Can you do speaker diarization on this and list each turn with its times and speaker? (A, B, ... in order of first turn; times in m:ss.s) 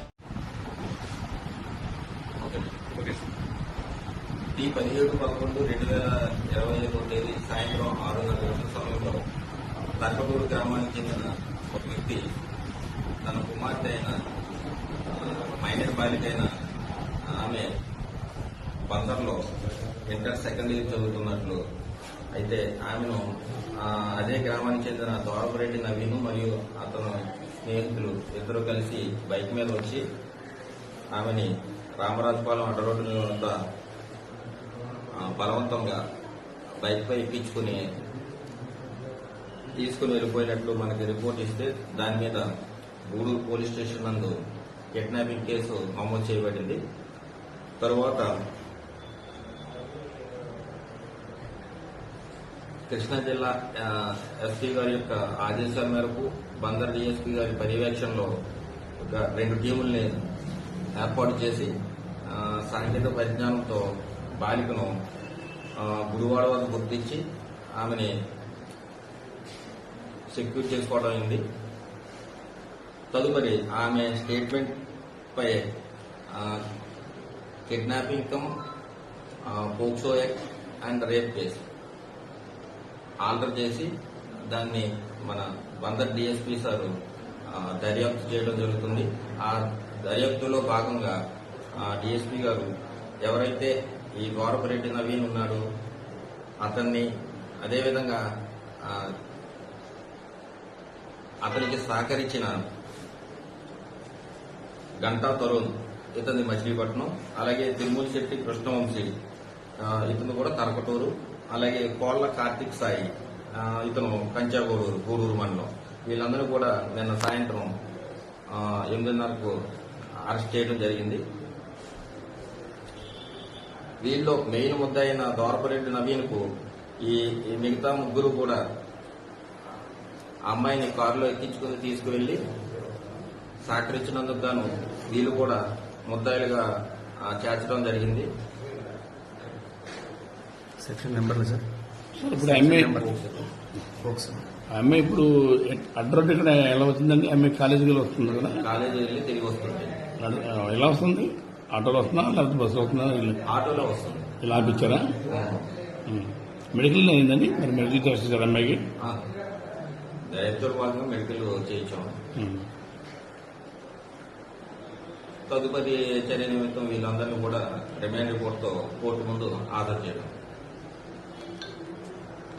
0:02.4-0:02.7 A
0:04.5-0:09.2 A
0:10.0-0:12.2 A
0:13.2-0:14.2 A
0:15.1-0:16.5 A
0:17.3-0:17.7 A
0:18.9-0:19.4 A
0:20.1-0:21.6 A
0:22.4-0:23.2 A
0:23.8-0:30.0 A
0:31.1-0:33.6 A
0:35.1-0:36.0 A
0:36.8-0:37.8 A
0:39.8-0:42.5 A
0:43.1-0:44.3 A
0:44.9-0:46.8 A
0:47.8-0:48.3 A
0:52.9-0:58.3 A
0:59.0-1:00.1 A
1:01.0-1:01.7 A
1:02.3-1:03.8 A
1:04.4-1:04.9 A
1:05.8-1:07.2 A
1:07.8-1:08.1 A
1:10.3-1:11.4 A
1:13.1-1:14.8 A
1:15.3-1:15.6 A
1:16.3-1:16.6 A
1:17.7-1:18.5 A
1:19.5-1:21.6 A
1:23.2-1:23.9 A
1:24.5-1:26.9 A
1:27.5-1:31.2 A
1:31.8-1:32.7 A
1:33.2-1:35.6 A
1:36.6-1:37.0 A
1:37.6-1:38.2 A
1:41.4-1:42.5 A
1:45.0-1:49.1 A
1:49.8-1:57.7 A
1:58.5-1:59.5 A
2:00.2-2:01.2 A
2:04.0-2:06.4 A
2:07.0-2:08.6 A
2:10.5-2:12.4 A
2:13.6-2:16.6 A
2:17.3-2:18.2 A
2:20.8-2:21.6 B
2:22.2-2:23.1 C
2:22.3-2:23.5 B
2:24.0-2:24.4 B
2:24.7-2:28.6 C
2:28.6-2:29.9 A
2:30.2-2:33.4 C
2:33.4-2:34.3 A
2:34.4-2:35.1 C
2:35.3-2:35.6 A
2:36.1-2:38.8 C
2:40.3-2:42.1 A
2:42.4-2:42.6 C
2:45.5-2:50.3 A